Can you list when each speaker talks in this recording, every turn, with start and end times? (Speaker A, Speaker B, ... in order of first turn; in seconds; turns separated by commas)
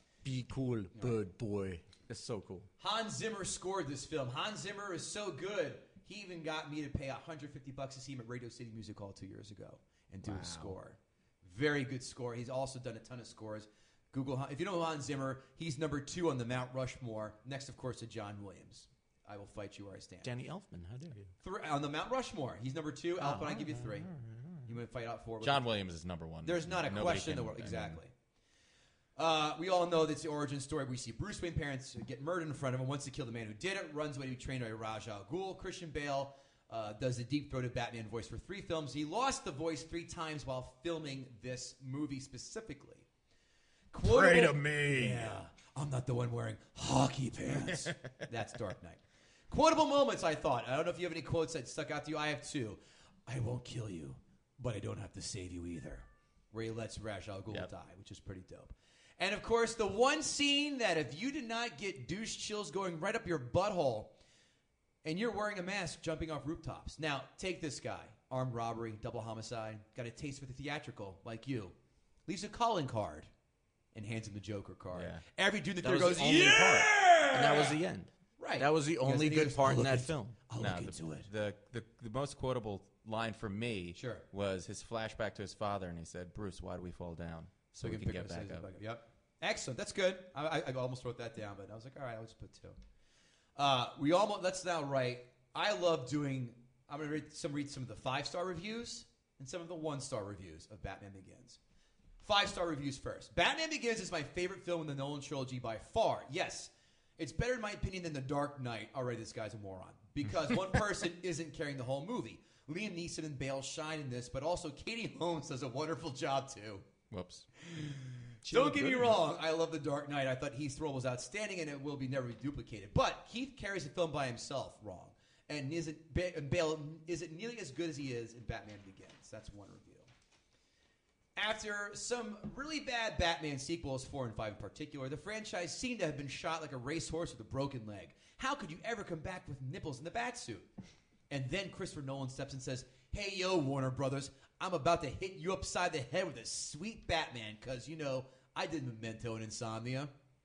Speaker A: 0.2-2.7, Speaker B: 2.8-20.3, Speaker C: 10.2-10.7, Speaker A: 20.2-21.3, Speaker B: 21.4-24.1, Speaker A: 23.2-24.7, Speaker B: 24.6-25.7, Speaker C: 25.4-28.0, Speaker B: 26.4-28.1, Speaker B: 29.1-43.0, Speaker B: 43.9-64.1, Speaker C: 44.0-45.4, Speaker C: 47.5-47.9, Speaker B: 65.0-71.7, Speaker B: 72.3-73.3, Speaker B: 73.9-77.8, Speaker C: 74.9-75.2, Speaker A: 75.8-80.4, Speaker B: 78.4-81.3, Speaker C: 80.6-88.7, Speaker B: 84.0-84.2, Speaker B: 87.8-92.8, Speaker B: 93.5-101.6, Speaker B: 102.2-116.8, Speaker C: 117.1-117.5, Speaker B: 117.7-130.1, Speaker A: 118.4-119.2, Speaker B: 131.4-140.7, Speaker B: 141.3-150.1